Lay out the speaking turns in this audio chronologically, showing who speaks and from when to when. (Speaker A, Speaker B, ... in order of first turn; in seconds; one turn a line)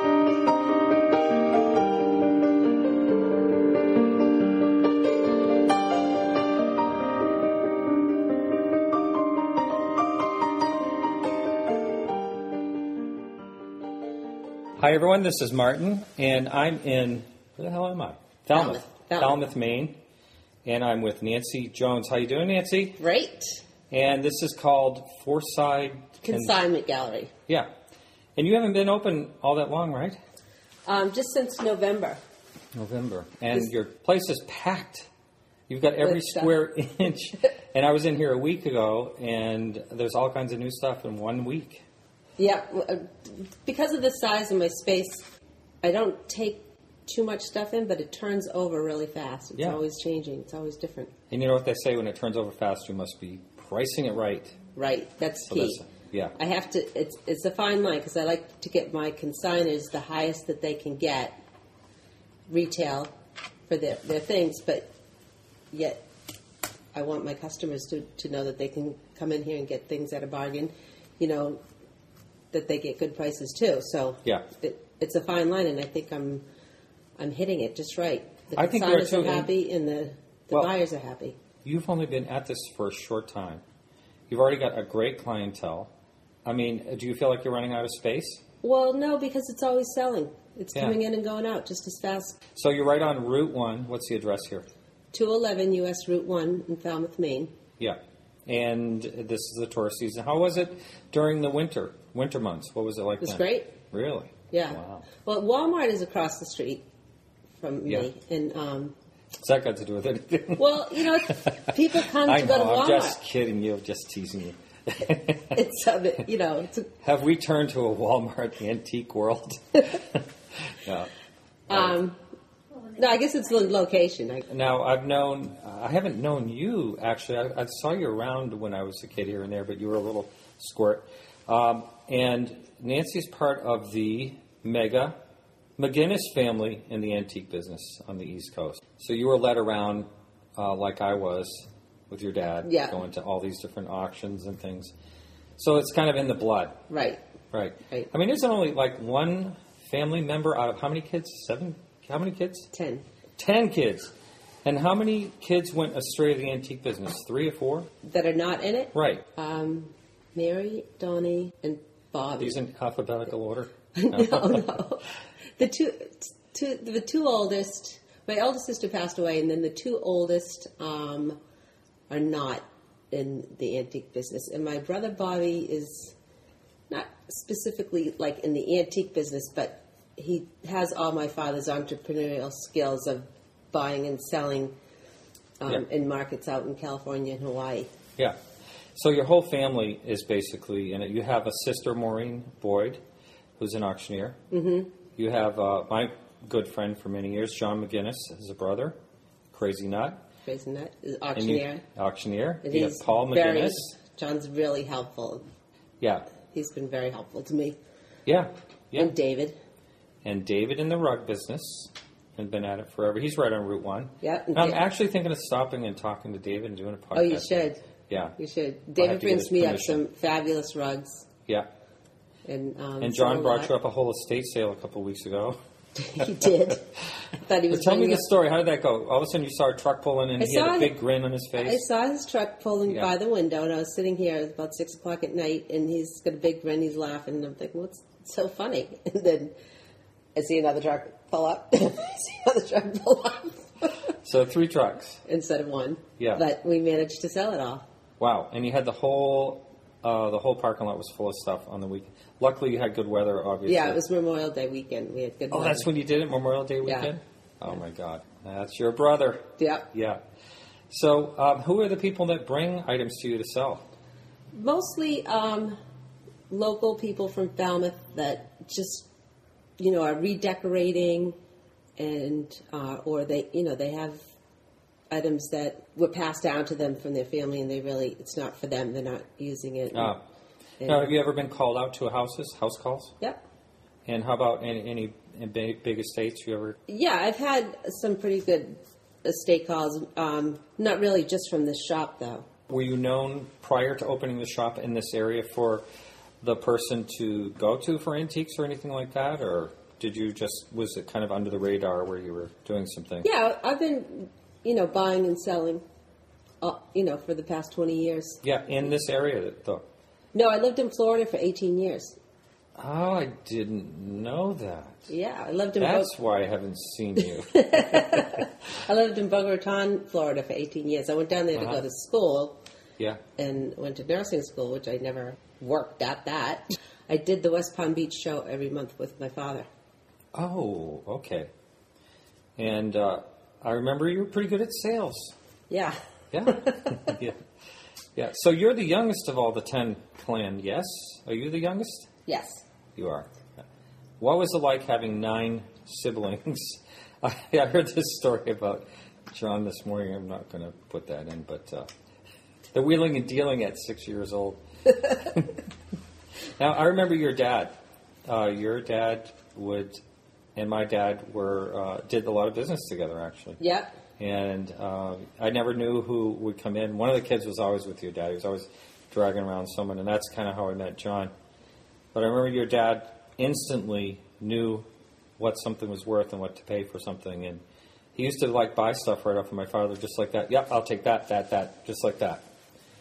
Speaker A: 14.8-20.0
Speaker B: 18.5-19.5
Speaker A: 20.6-23.0
Speaker B: 23.0-23.6
Speaker A: 23.9-26.6
Speaker B: 26.2-27.3
Speaker A: 28.4-30.2
Speaker B: 30.9-32.2
Speaker A: 32.8-35.1
Speaker A: 35.7-41.8
Speaker B: 36.0-36.5
Speaker B: 42.4-45.2
Speaker B: 45.8-51.1
Speaker A: 49.6-49.8
Speaker A: 51.3-54.6
Speaker B: 54.8-61.4
Speaker A: 55.5-56.4
Speaker B: 62.5-63.1
Speaker B: 63.7-64.9
Speaker B: 65.7-66.0
Speaker B: 66.9-71.6
Speaker B: 72.5-76.4
Speaker B: 77.2-81.4
Speaker A: 78.6-79.5
Speaker A: 81.7-83.6
Speaker A: 84.3-85.9
Speaker A: 86.5-88.4
Speaker B: 88.6-92.4
Speaker A: 92.5-94.7
Speaker B: 95.1-97.5
Speaker A: 97.8-105.0
Speaker B: 103.2-103.8
Speaker B: 104.5-106.8
Speaker B: 107.6-109.0
Speaker A: 109.4-115.6
Speaker B: 110.6-113.2
Speaker B: 115.5-116.9
Speaker A: 117.0-121.1
Speaker B: 121.7-122.2
Speaker B: 122.8-124.5
Speaker A: 124.5-135.2
Speaker A: 135.8-144.9
Speaker B: 142.7-143.0
Speaker A: 145.6-146.8
Speaker B: 146.9-147.2
Speaker A: 147.5-152.7
Speaker B: 152.7-153.1
Speaker A: 153.4-154.1
Speaker A: 154.6-157.9
Speaker B: 158.0-162.6
Speaker A: 158.9-159.2
Speaker A: 162.4-164.7
Speaker B: 163.9-165.1
Speaker B: 165.6-171.4
Speaker B: 172.1-176.2
Speaker B: 176.9-184.7
Speaker B: 185.6-187.9
Speaker A: 188.9-193.0
Speaker A: 193.6-194.4
Speaker B: 194.5-194.9
Speaker A: 195.2-199.0
Speaker A: 199.5-200.2
Speaker B: 200.4-201.8
Speaker A: 201.4-203.9
Speaker B: 202.6-205.5
Speaker A: 206.0-206.3
Speaker B: 206.5-207.8
Speaker A: 208.3-209.1
Speaker B: 209.0-209.6
Speaker A: 210.2-218.4
Speaker B: 214.2-214.8
Speaker B: 217.1-217.8
Speaker B: 218.4-221.3
Speaker A: 219.0-220.0
Speaker B: 222.5-223.7
Speaker A: 223.0-225.6
Speaker B: 226.0-226.9
Speaker A: 226.2-226.5
Speaker B: 227.4-228.3
Speaker A: 227.7-231.8
Speaker B: 230.4-231.0
Speaker B: 231.6-239.5
Speaker B: 240.4-244.0
Speaker A: 244.2-245.2
Speaker B: 245.2-247.8
Speaker A: 248.2-254.0
Speaker B: 253.7-255.9
Speaker A: 255.5-260.2
Speaker B: 256.8-257.1
Speaker B: 259.6-259.9
Speaker A: 260.9-263.9
Speaker B: 264.5-265.8
Speaker B: 266.5-269.1
Speaker B: 269.8-271.4
Speaker B: 272.0-274.2
Speaker B: 275.1-280.2
Speaker A: 279.9-280.2
Speaker B: 280.8-281.1
Speaker A: 280.8-283.1
Speaker A: 284.1-286.8
Speaker B: 286.9-292.5
Speaker A: 292.7-295.8
Speaker A: 296.4-303.3
Speaker B: 303.2-305.8
Speaker B: 306.6-308.4
Speaker A: 308.4-309.8
Speaker B: 310.3-312.2
Speaker A: 312.8-315.1
Speaker B: 315.1-316.1
Speaker A: 315.8-318.4
Speaker B: 317.5-322.6
Speaker A: 321.6-321.8
Speaker B: 323.4-329.7
Speaker A: 330.3-331.5
Speaker A: 332.6-335.3
Speaker B: 335.7-337.1
Speaker A: 336.3-337.4
Speaker A: 338.1-342.1
Speaker B: 342.3-342.6
Speaker A: 343.0-343.3
Speaker A: 344.2-351.9
Speaker A: 352.7-355.6
Speaker A: 356.6-357.7
Speaker A: 358.2-360.0
Speaker A: 360.6-363.6
Speaker B: 363.6-363.9
Speaker A: 364.2-371.3
Speaker A: 372.1-374.9
Speaker A: 375.4-377.6
Speaker A: 378.1-382.4